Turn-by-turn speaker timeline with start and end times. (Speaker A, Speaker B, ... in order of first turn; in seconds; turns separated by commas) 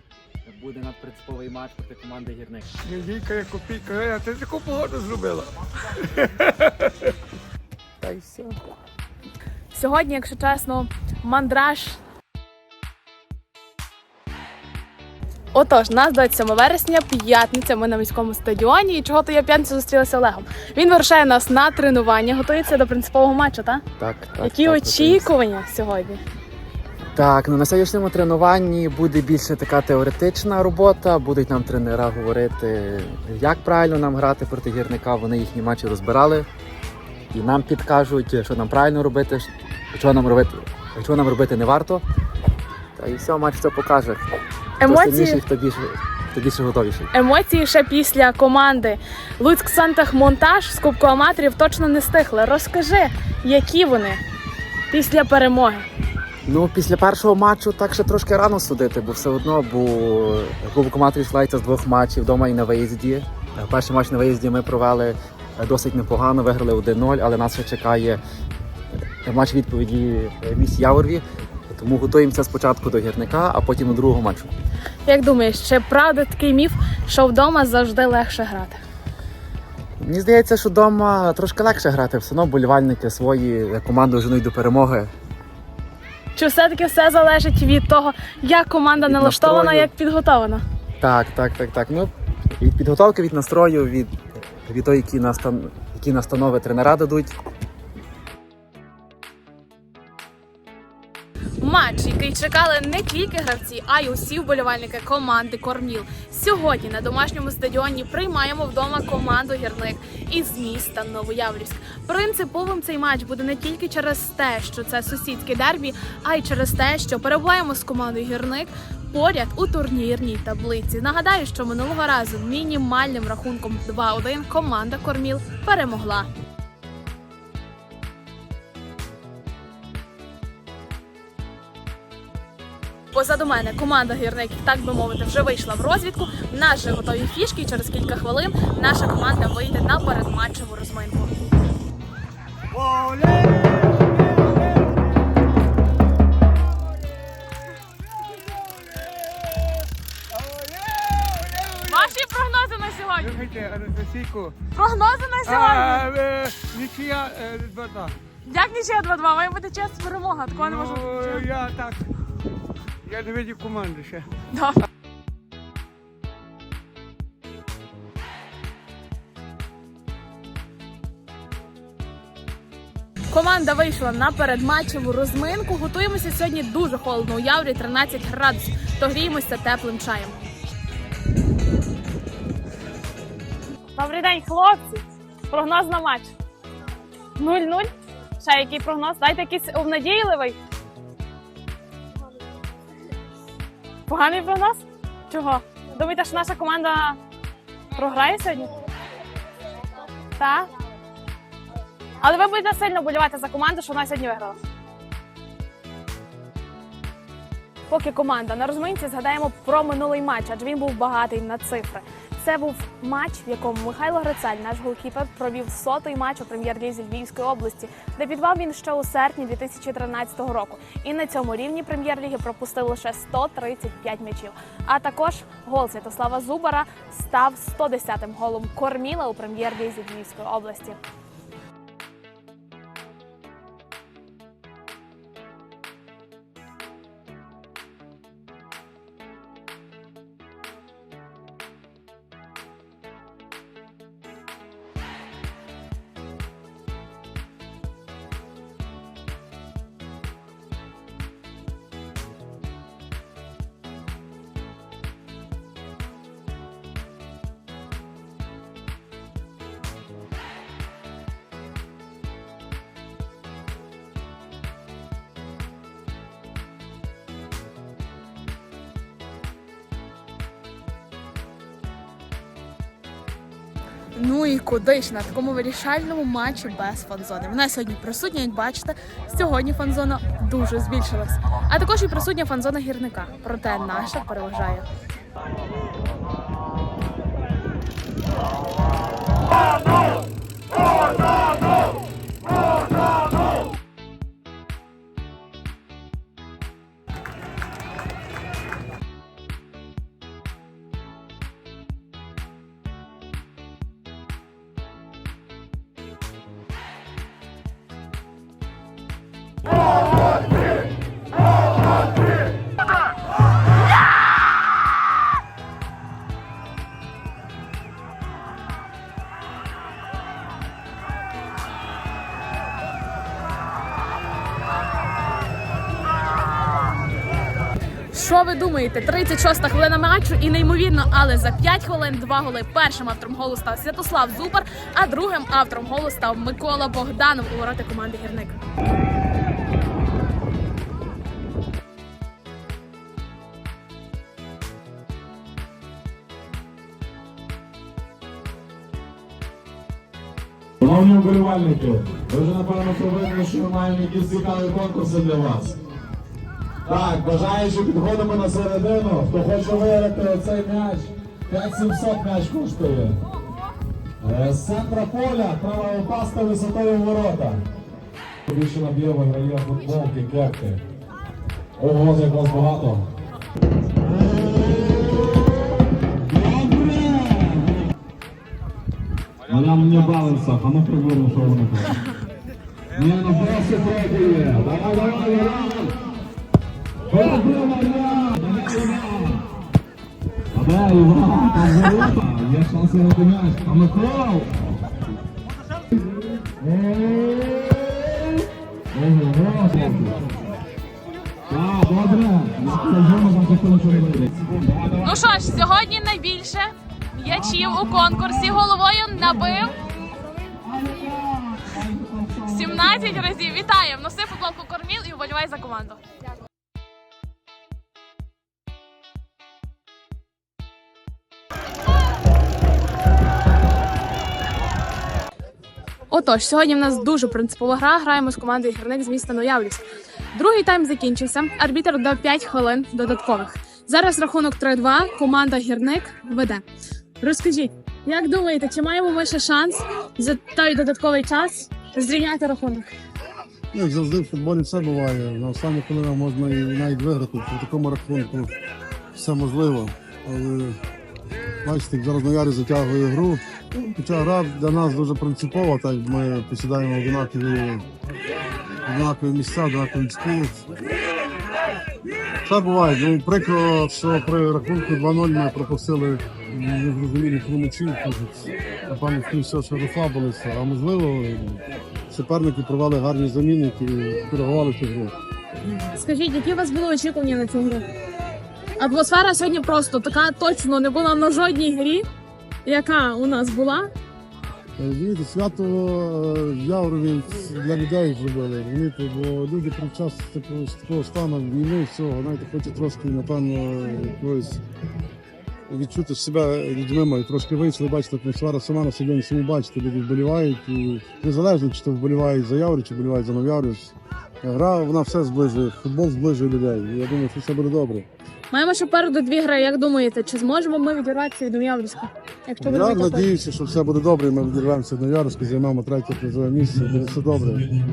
Speaker A: 0.4-2.7, Speaker B: 2.8-5.5, Speaker B: 6.0-6.7, Speaker B: 8.0-8.5, Speaker A: 8.0-8.4, Speaker C: 9.7-12.0, Speaker C: 15.5-23.8, Speaker A: 24.0-25.3, Speaker C: 24.4-26.2, Speaker A: 27.1-36.5, Speaker A: 37.3-42.0, Speaker A: 43.0-47.1, Speaker C: 44.8-45.4, Speaker C: 47.1-54.2, Speaker C: 54.9-55.9, Speaker A: 56.5-68.2, Speaker A: 69.2-74.5, Speaker C: 75.0-78.8, Speaker A: 80.0-85.1, Speaker C: 86.3-90.6, Speaker A: 89.0-89.9, Speaker A: 91.0-97.3, Speaker C: 101.6-126.3, Speaker C: 133.1-141.3, Speaker B: 150.3-152.1, Speaker C: 151.8-153.4, Speaker B: 153.2-154.6, Speaker C: 154.7-156.1, Speaker B: 155.4-158.1, Speaker C: 158.4-161.5, Speaker B: 160.5-162.1, Speaker B: 163.0-164.3, Speaker C: 164.5-164.8, Speaker C: 173.3-180.5, Speaker C: 183.9-186.3, Speaker C: 187.4-190.6, Speaker C: 194.1-197.2, Speaker C: 197.9-198.7, Speaker C: 200.4-200.7, Speaker C: 202.2-204.6, Speaker C: 207.9-231.0, Speaker C: 274.1-284.9, Speaker C: 328.1-338.6, Speaker D: 350.8-355.8, Speaker D: 356.9-363.1, Speaker D: 364.2-367.6, Speaker D: 368.4-370.8, Speaker D: 371.8-373.1, Speaker D: 374.4-375.0, Speaker D: 376.3-377.7, Speaker D: 379.5-382.0, Speaker D: 382.9-386.0, Speaker D: 387.1-389.4, Speaker D: 390.5-394.6, Speaker D: 396.6-398.2, Speaker D: 398.9-400.2, Speaker D: 401.5-405.1, Speaker C: 405.0-409.8, Speaker D: 410.7-412.3, Speaker C: 412.4-416.0, Speaker C: 426.1-436.6, Speaker C: 437.2-442.9, Speaker E: 443.7-448.5, Speaker E: 449.1-450.8, Speaker E: 451.6-457.9, Speaker E: 458.8-460.6, Speaker E: 462.4-475.1, Speaker C: 475.8-477.9, Speaker C: 478.8-482.0, Speaker C: 482.6-483.9, Speaker E: 484.8-494.6, Speaker E: 495.7-508.1, Speaker C: 508.5-513.3, Speaker E: 512.6-517.7